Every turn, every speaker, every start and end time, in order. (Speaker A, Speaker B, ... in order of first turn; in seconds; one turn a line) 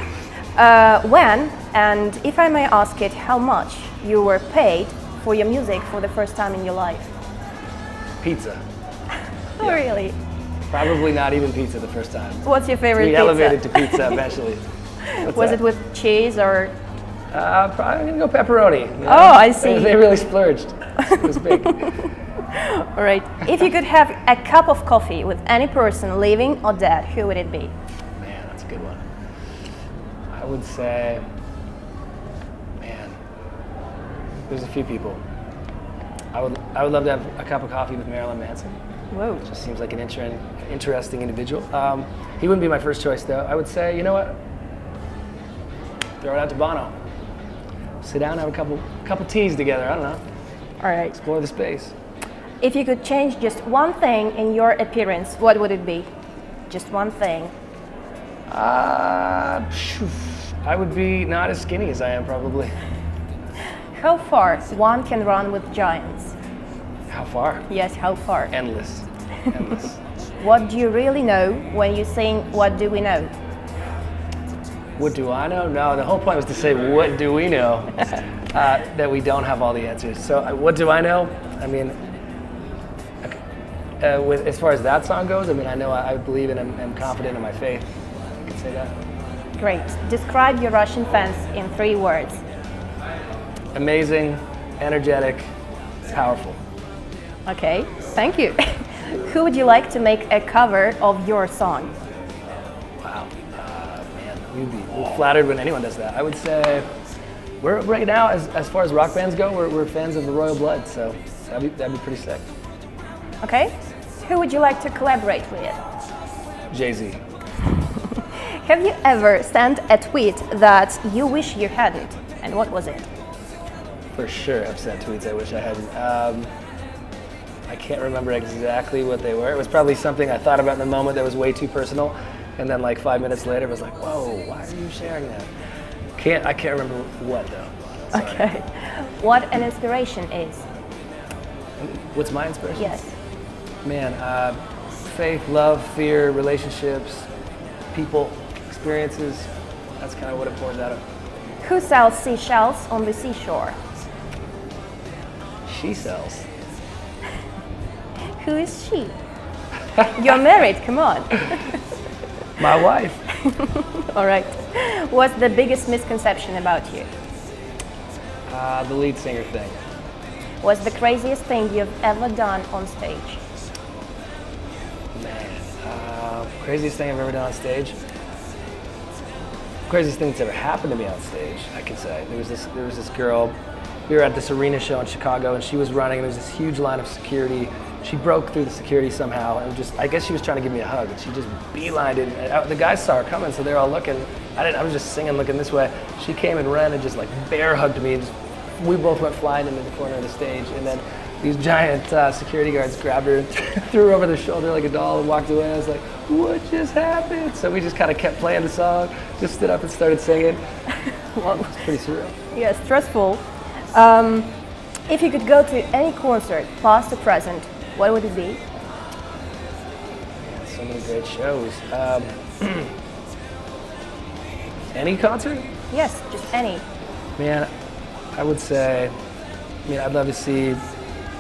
Speaker A: 0.6-7.1
Speaker B: 8.2-8.6
Speaker B: 9.6-9.8
Speaker A: 9.6-10.2
Speaker B: 10.7-14.6
Speaker A: 12.4-14.2
Speaker A: 15.2-16.8
Speaker B: 15.2-15.6
Speaker B: 17.3-22.0
Speaker A: 19.1-20.0
Speaker A: 22.5-27.7
Speaker B: 28.2-29.0
Speaker B: 30.3-31.2
Speaker B: 32.8-33.2
Speaker B: 34.5-35.2
Speaker B: 36.3-38.8
Speaker A: 39.1-39.4
Speaker B: 39.4-44.4
Speaker B: 46.2-47.0
Speaker B: 48.0-50.2
Speaker A: 50.8-51.1
Speaker B: 51.1-51.9
Speaker A: 52.6-56.1
Speaker A: 56.7-57.5
Speaker B: 58.5-62.7
Speaker A: 64.0-66.3
Speaker B: 67.1-67.7
Speaker A: 67.7-68.5
Speaker B: 68.5-70.0
Speaker A: 70.4-73.3
Speaker B: 75.0-82.0
Speaker B: 84.0-89.0
Speaker A: 89.6-92.4
Speaker B: 93.7-95.5
Speaker B: 96.1-96.6
Speaker A: 97.5-101.9
Speaker B: 103.0-106.9
Speaker B: 107.6-112.5
Speaker A: 113.4-115.8
Speaker B: 116.7-117.2
Speaker A: 118.1-123.1
Speaker B: 124.2-126.5
Speaker B: 127.7-135.5
Speaker B: 136.2-138.5
Speaker A: 138.1-140.7
Speaker B: 141.8-143.0
Speaker A: 142.8-143.1
Speaker B: 143.8-147.3
Speaker B: 147.9-151.0
Speaker A: 151.6-153.8
Speaker B: 155.7-156.5
Speaker A: 158.4-159.2
Speaker A: 160.1-161.8
Speaker B: 162.6-163.3
Speaker A: 163.4-167.1
Speaker B: 168.5-169.8
Speaker A: 170.6-173.4
Speaker B: 175.1-178.0
Speaker B: 179.9-183.6
Speaker B: 184.1-210.6
Speaker A: 211.3-211.8
Speaker B: 211.4-212.4
Speaker A: 212.5-214.6
Speaker A: 215.1-218.6
Speaker B: 220.4-222.9
Speaker B: 224.9-225.7
Speaker A: 225.9-226.8
Speaker B: 227.4-227.7
Speaker B: 228.3-229.1
Speaker B: 229.9-230.8